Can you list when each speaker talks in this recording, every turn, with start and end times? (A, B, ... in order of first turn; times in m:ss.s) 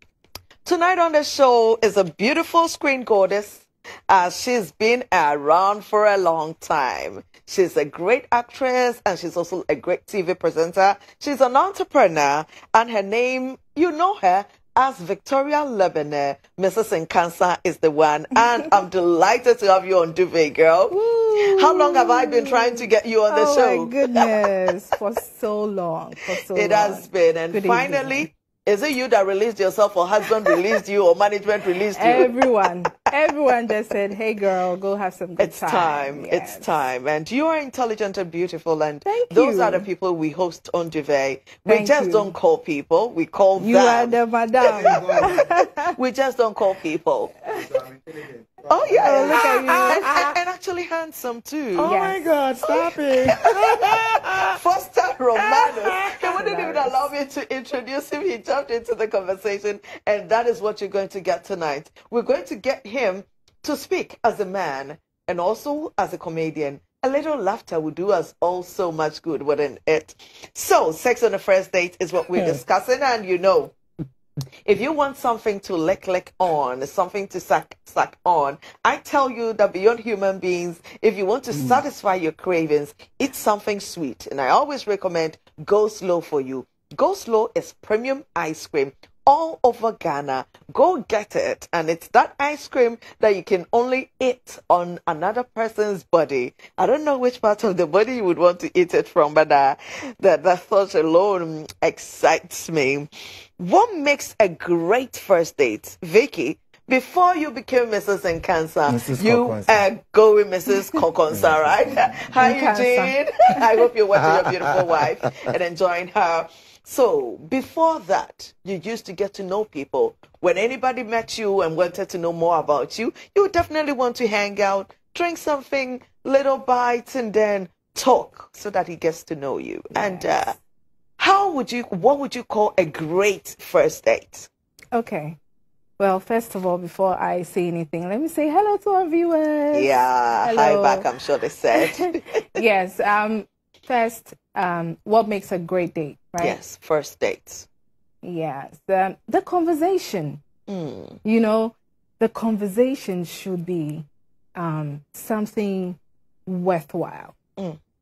0:00.6-0:24.3 A
0:20.9-0:28.3 B
0:26.5-0:32.3 A
0:31.9-0:36.7 B
0:35.4-0:44.2 A
0:39.0-0:39.8 B
0:41.7-0:42.3 B
0:43.6-0:45.9 B
0:44.6-0:45.4 C
0:44.7-0:45.4 A
0:46.0-0:47.3 A
0:47.5-0:50.3 C
0:48.7-0:51.9 A
0:49.0-0:50.2 B
0:51.7-0:54.5 C
0:51.8-0:52.2 B
0:53.7-1:13.7 A
0:55.4-0:56.8 C
0:56.4-0:57.0 B
1:12.3-1:12.6 C
1:14.6-2:10.6 A
1:21.5-1:21.8 C
1:48.9-1:49.7 C
1:51.3-1:52.3 C
1:52.4-1:53.1 B
1:54.1-1:55.0 C
2:09.9-2:10.3 B
2:11.2-2:14.5 A
2:14.9-2:15.4 B
2:16.0-2:21.1 B
2:19.7-2:22.4 A
2:21.7-2:22.0 B
2:22.5-2:26.6 B
2:26.4-2:27.6 A
2:28.2-2:30.4 B
2:30.7-2:31.2 A
2:31.2-2:37.3 B